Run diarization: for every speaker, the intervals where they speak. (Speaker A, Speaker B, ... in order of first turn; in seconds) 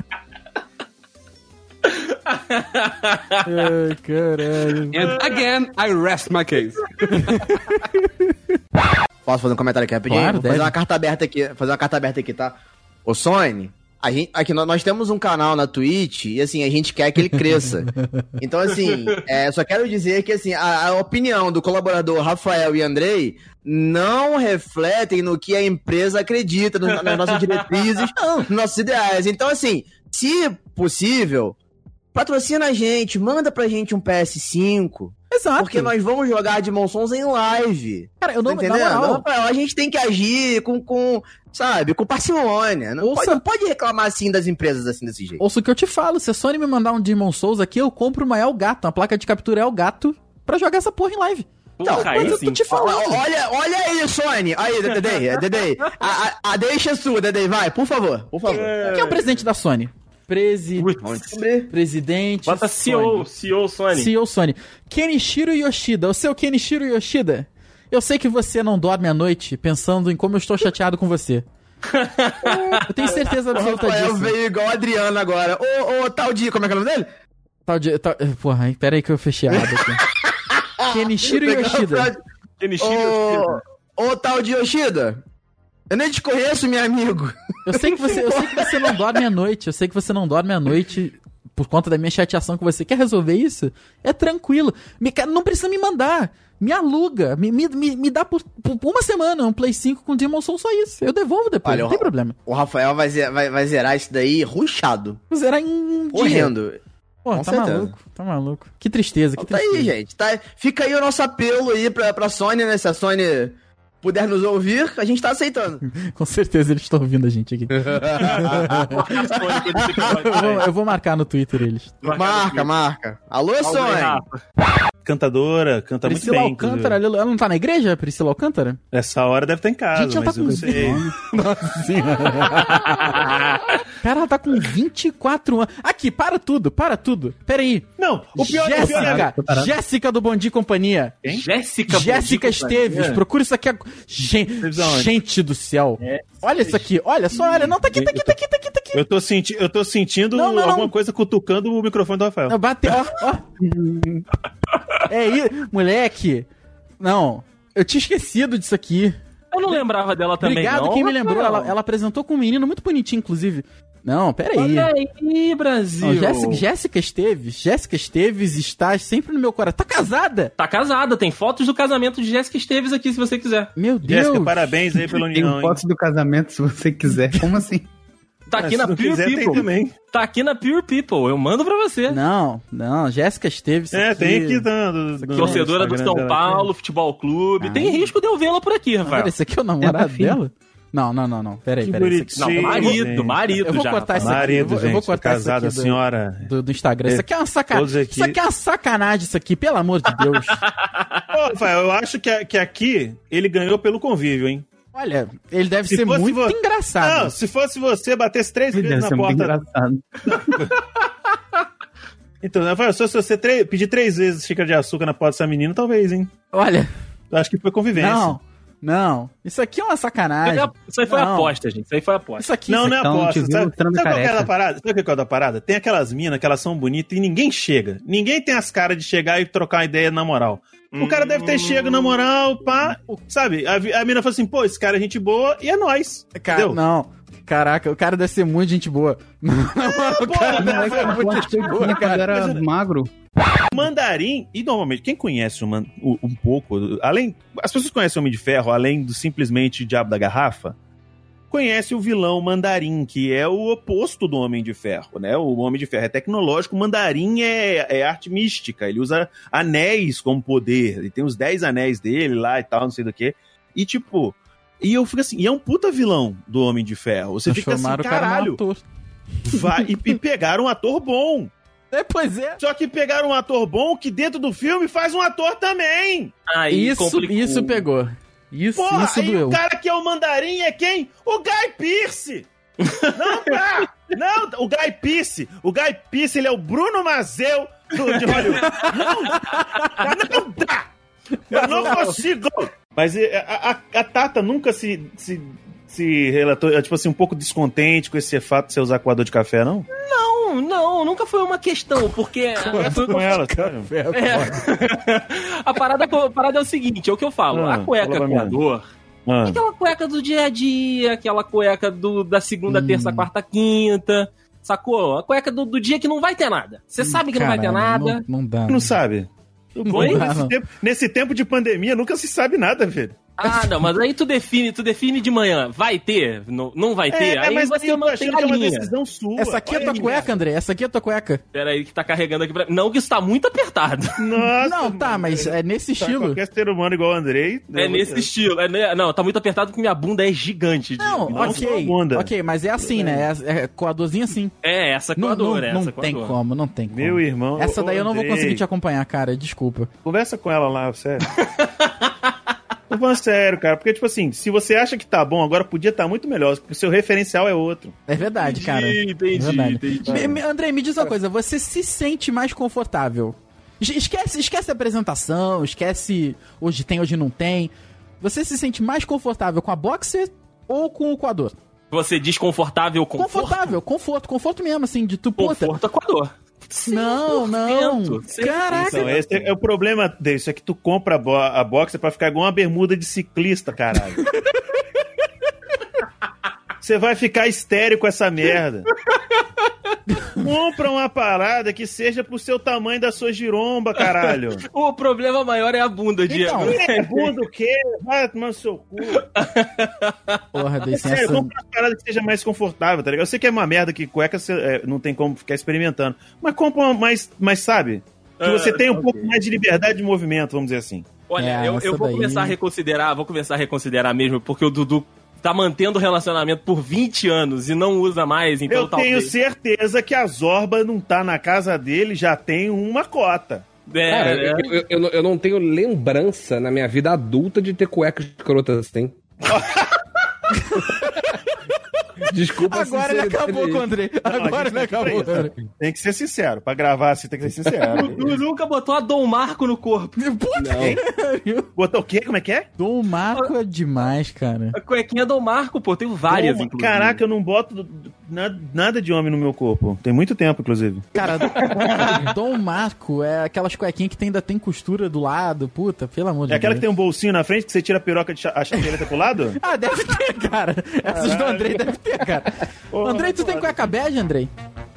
Speaker A: 2.3-3.4, 26.9-28.1, 51.8-52.6, 54.9-55.2, 58.4-59.4, 60.8-61.4, 62.5-64.1, 72.0-73.1, 82.6-83.6, 118.2-120.7, 122.0-122.7, 123.6-124.4, 132.8-133.4, 141.3-143.0, 146.0-146.8, 159.5-161.7, 164.5-166.6, 170.6-173.7, 178.5-182.2, 185.3-189.3, 192.4-194.8, 200.8-201.3, 220.4-222.5, 230.9-232.2, 276.5-277.9, 282.9-283.4, 288.4-289.0, 291.6-292.1, 299.9-303.3, 304.1-308.9, 309.4-318.2, 319.9-320.2, 323.4-328.9, 330.0-330.2, 331.5-334.2, 337.7-341.6, 344.6-346.4, 351.6-352.1, 358.2-360.4, 371.9-373.8, 375.4-379.5, 394.0-397.3, 399.1-400.4, 408.4-409.3, 411.3-419.3, 423.9-424.8, 437.9-440.2, 444.7-447.2, 451.2-452.2
Speaker B: 3.4-5.0, 7.1-8.1, 10.1-10.7, 28.2-28.4, 35.3-35.9, 38.2-39.2, 43.0-43.4, 45.4-53.2, 58.8-60.9, 61.7-63.3, 63.9-71.5, 72.9-74.3, 77.7-80.0, 80.8-82.1, 87.7-102.3, 105.3-106.5, 107.2-109.9, 115.9-118.9, 120.0-122.0, 126.0-128.8, 129.9-133.1, 134.0-137.8, 138.4-141.2, 141.9-149.0, 150.3-150.9, 152.5-153.5, 155.1-156.5, 157.0-159.2, 160.4-164.9, 166.0-170.5, 173.7-174.8, 182.1-185.7, 187.6-188.1, 189.0-193.0, 193.6-200.6, 204.9-207.3, 216.5-216.9, 217.9-221.5, 222.4-222.9, 236.3-242.3, 267.5-268.8, 271.9-272.6, 276.7-279.6, 288.7-290.0, 291.5-292.2, 302.6-304.6, 312.7-313.3, 317.0-318.9, 319.9-320.6, 323.4-323.7, 329.4-331.4, 334.6-336.4, 341.0-344.5, 345.1-349.9, 358.1-371.5, 373.1-375.7, 376.9-379.1, 384.1-384.4, 396.3-396.8, 400.5-401.5, 411.4-412.6, 430.5-431.4, 432.6-435.5, 440.2-441.7, 442.8-444.8, 451.1-456.9, 459.6-464.5
Speaker C: 4.9-7.3, 424.1-429.2, 432.2-433.9, 440.6-441.0
Speaker D: 9.2-31.5, 32.1-45.4, 51.8-58.9, 61.0-61.7, 72.4-77.0, 80.4-82.2, 82.8-85.2, 85.9-89.0, 101.6-105.2, 106.1-106.8, 107.3-108.0, 109.4-115.8, 117.9-120.4, 122.1-124.2
Speaker E: 125.0-127.0, 128.9-131.1, 138.0-139.2, 142.9-143.2, 144.6-145.1, 148.9-152.5, 174.0-175.8, 178.6-179.9, 183.9-186.7, 191.8-193.6, 194.2-196.5, 197.0-198.4, 201.3-204.7, 205.9-209.6, 210.3-210.7, 212.4-216.3, 217.3-218.4, 222.7-236.8, 240.2-242.6, 243.7-250.7, 251.5-268.6, 269.4-271.5, 272.6-276.3, 278.8-282.5, 283.1-289.4, 290.0-290.9, 291.5-299.9, 302.7-303.9, 307.5-308.6, 309.2-309.6, 318.7-323.2, 327.1-330.4, 334.2-338.3, 341.3-343.3, 346.9-348.6, 350.0-351.3, 352.9-358.0, 378.7-384.2, 386.8-388.9, 390.4-394.6, 396.6-399.2, 400.9-411.1, 418.7-423.6, 429.5-429.9, 434.2-438.4, 441.8-442.7, 446.3-451.1, 456.5-459.6, 461.1-461.9, 462.9-463.9
Speaker F: 130.4-131.1, 138.4-139.8, 175.2-177.9, 189.8-190.4, 208.7-210.7, 222.8-224.5, 240.6-243.1